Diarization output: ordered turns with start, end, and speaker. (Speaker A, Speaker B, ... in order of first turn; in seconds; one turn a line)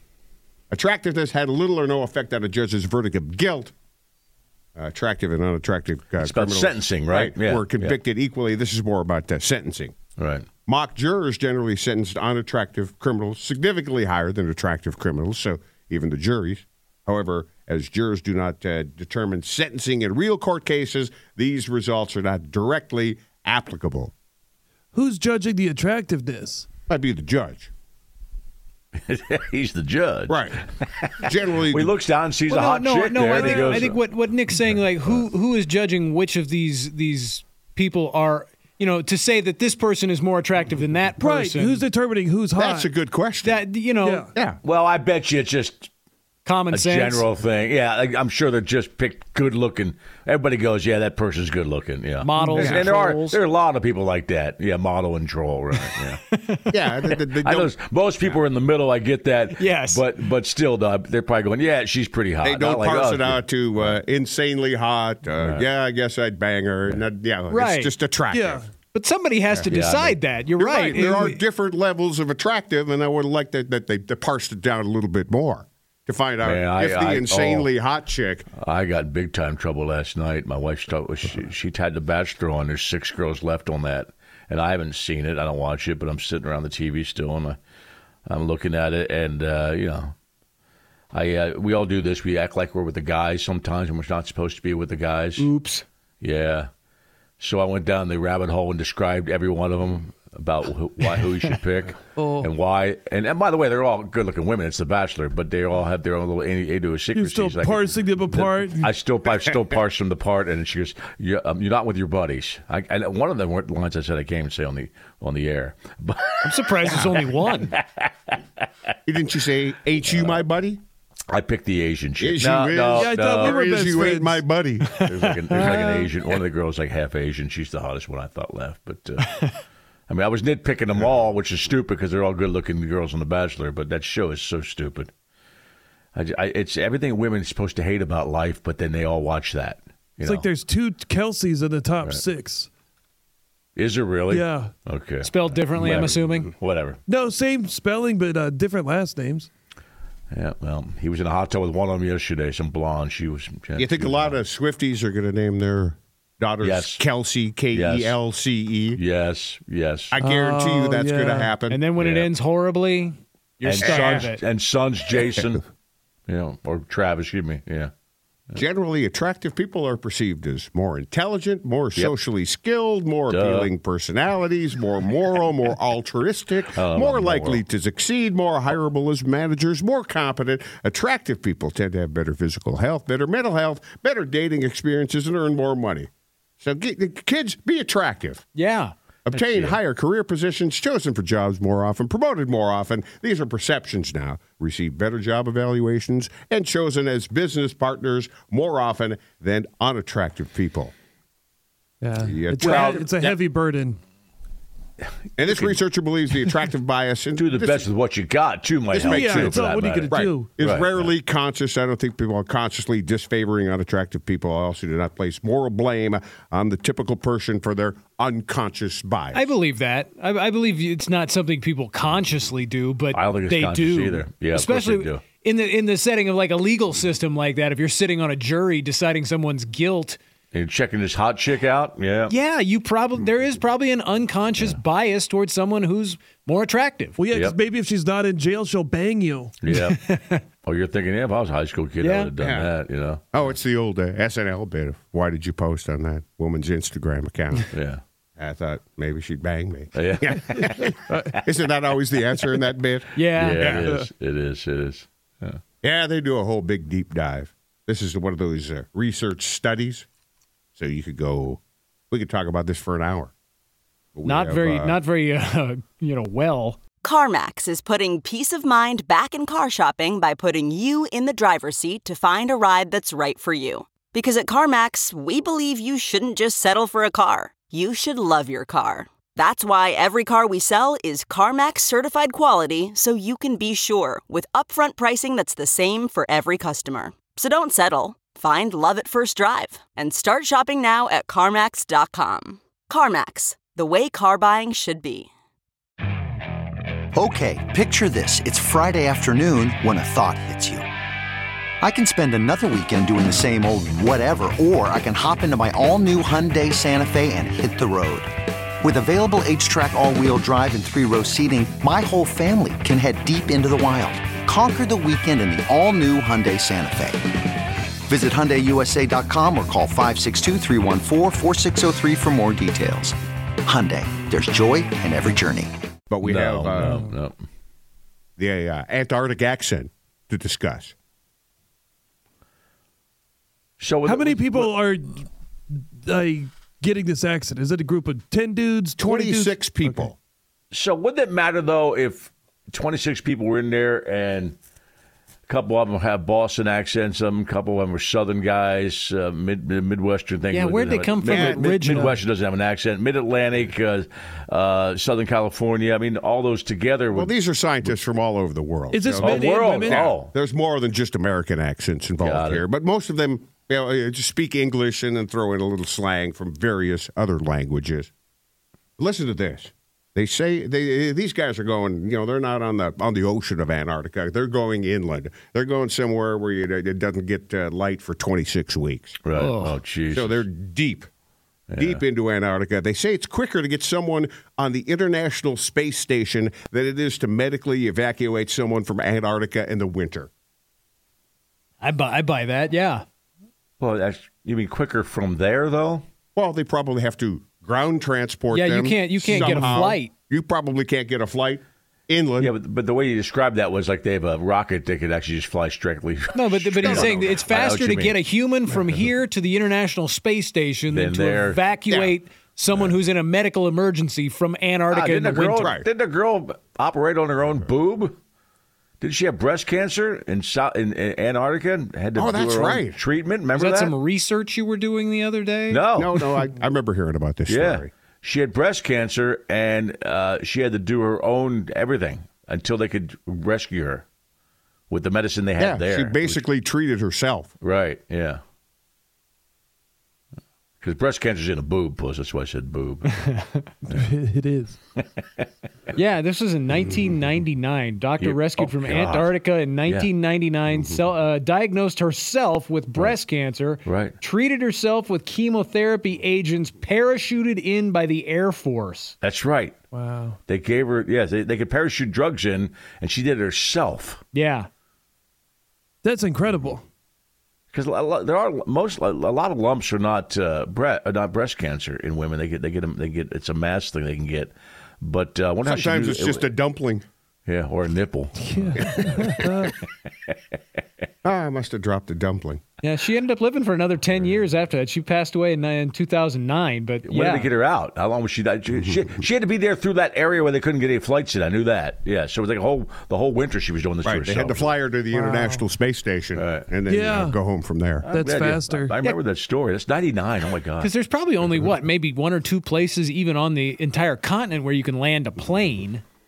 Speaker A: 0.7-3.7
Speaker A: 4.8-10.0
Speaker B: 6.2-8.0
Speaker B: 10.2-10.5
Speaker A: 10.7-24.1
Speaker C: 24.9-26.7
Speaker A: 26.9-27.7
Speaker B: 29.1-34.0
Speaker A: 30.3-30.6
Speaker A: 31.2-31.9
Speaker D: 32.5-41.9
Speaker C: 33.4-33.8
Speaker C: 41.2-42.9
Speaker A: 42.6-43.7
Speaker D: 43.4-44.3
Speaker C: 44.0-44.3
Speaker A: 44.3-44.6
Speaker B: 44.6-45.9
Speaker D: 46.5-47.3
Speaker B: 46.7-56.2
Speaker D: 52.2-53.4
Speaker A: 52.6-52.9
Speaker D: 56.3-56.8
Speaker A: 56.7-57.7
Speaker B: 57.4-64.0
Speaker D: 59.5-60.1
Speaker A: 62.4-68.7
Speaker B: 65.3-65.7
Speaker D: 67.5-67.9
Speaker C: 68.3-68.7
Speaker D: 68.9-71.4
Speaker B: 69.7-70.2
Speaker A: 70.6-78.5
Speaker B: 76.4-77.7
Speaker B: 78.6-87.6
Speaker B: 88.3-90.1
Speaker B: 91.1-95.5
Speaker D: 95.4-95.8
Speaker B: 96.2-96.7
Speaker B: 97.4-117.1
Speaker C: 102.2-102.5
Speaker C: 107.1-108.9
Speaker D: 116.4-117.7
Speaker A: 116.9-117.2
Speaker B: 117.7-118.4
Speaker A: 119.1-120.8
Speaker B: 120.1-120.5
Speaker B: 121.3-123.6
Speaker A: 122.2-124.9
Speaker C: 123.0-124.4
Speaker B: 125.0-129.5
Speaker D: 125.2-125.8
Speaker B: 130.1-135.1
Speaker B: 136.2-140.5
Speaker C: 140.2-142.7
Speaker B: 143.8-147.0
Speaker C: 144.3-144.7
Speaker D: 145.2-146.5
Speaker C: 147.1-149.5
Speaker B: 150.3-154.4
Speaker A: 153.8-159.0
Speaker B: 156.6-157.1
Speaker B: 157.7-158.2
Speaker B: 158.9-160.2
Speaker A: 160.1-161.8
Speaker C: 160.2-161.5
Speaker D: 161.7-164.4
Speaker B: 162.0-162.3
Speaker B: 163.6-165.7
Speaker A: 163.8-164.3
Speaker B: 166.3-167.9
Speaker A: 168.6-186.1
Speaker B: 173.3-173.7
Speaker B: 176.7-177.6
Speaker A: 186.6-188.5
Speaker D: 188.6-188.9
Speaker A: 189.3-200.9
Speaker B: 189.3-189.8
Speaker C: 202.0-204.0
Speaker A: 202.2-203.4
Speaker A: 205.4-207.9
Speaker B: 205.4-205.8
Speaker B: 207.4-210.9
Speaker A: 208.9-219.5
Speaker C: 209.1-210.5
Speaker D: 219.3-230.2
Speaker B: 223.1-225.2
Speaker B: 230.5-232.3
Speaker D: 232.3-237.2
Speaker C: 237.2-239.6
Speaker B: 237.3-237.6
Speaker B: 239.6-240.0
Speaker D: 239.7-240.4
Speaker B: 240.6-243.5
Speaker D: 242.0-242.3
Speaker A: 242.4-242.7
Speaker A: 243.3-247.7
Speaker B: 247.7-248.0
Speaker A: 248.4-253.8
Speaker B: 249.9-250.4
Speaker D: 253.2-253.8
Speaker B: 253.3-255.6
Speaker A: 255.8-260.1
Speaker A: 260.8-261.6
Speaker A: 262.1-263.3
Speaker A: 264.1-265.0
Speaker D: 264.2-266.8
Speaker E: 267.0-295.3
Speaker F: 297.1-300.9
Speaker F: 301.8-317.4
Speaker F: 318.0-325.8
Speaker A: 326.1-327.0
Speaker B: 326.2-327.4
Speaker A: 328.4-330.9
Speaker B: 333.8-334.7
Speaker C: 334.0-340.1
Speaker A: 339.0-340.2
Speaker B: 340.7-344.6
Speaker B: 345.5-358.0
Speaker D: 350.5-352.2
Speaker A: 351.3-351.9
Speaker A: 357.1-368.1
Speaker C: 358.9-360.1
Speaker B: 359.2-360.3
Speaker B: 362.2-362.6
Speaker A: 369.0-379.2
Speaker B: 379.2-380.4
Speaker D: 379.4-379.8
Speaker A: 380.1-381.1
Speaker B: 381.7-382.0
Speaker A: 381.8-390.3
Speaker D: 391.8-393.1
Speaker B: 393.8-396.1
Speaker A: 396.4-402.5
Speaker D: 398.5-400.1
Speaker B: 399.3-399.6
Speaker B: 402.4-408.2
Speaker D: 406.4-415.7
Speaker A: 406.6-407.5
Speaker B: 410.9-411.6
Speaker A: 411.9-412.2
Speaker B: 414.9-418.2
Speaker A: 415.6-415.9
Speaker B: 419.0-423.9
Speaker A: 422.2-423.0
Speaker D: 423.6-425.9
Speaker B: 425.7-426.3
Speaker A: 426.0-427.9
Speaker B: 427.5-434.1
Speaker B: 434.9-436.5
Speaker A: 435.6-437.5
Speaker B: 437.6-438.4
Speaker B: 440.8-443.2
Speaker D: 443.2-443.7
Speaker C: 443.9-444.8
Speaker B: 445.0-445.4
Speaker D: 445.9-459.2
Speaker B: 448.2-450.1
Speaker A: 450.7-451.0
Speaker B: 453.8-454.1
Speaker B: 459.2-459.8
Speaker C: 459.9-460.4
Speaker B: 460.5-464.2
Speaker D: 464.3-464.7
Speaker C: 466.0-466.8
Speaker B: 467.7-476.5
Speaker A: 475.6-477.0
Speaker B: 477.5-479.4
Speaker C: 478.4-479.8
Speaker A: 478.8-479.2
Speaker A: 481.2-482.6
Speaker D: 482.8-487.5
Speaker B: 487.1-494.8
Speaker A: 494.0-498.1
Speaker C: 495.1-495.6
Speaker B: 496.4-496.7
Speaker C: 496.9-497.4
Speaker B: 498.0-500.9
Speaker C: 498.1-498.9
Speaker D: 500.8-506.0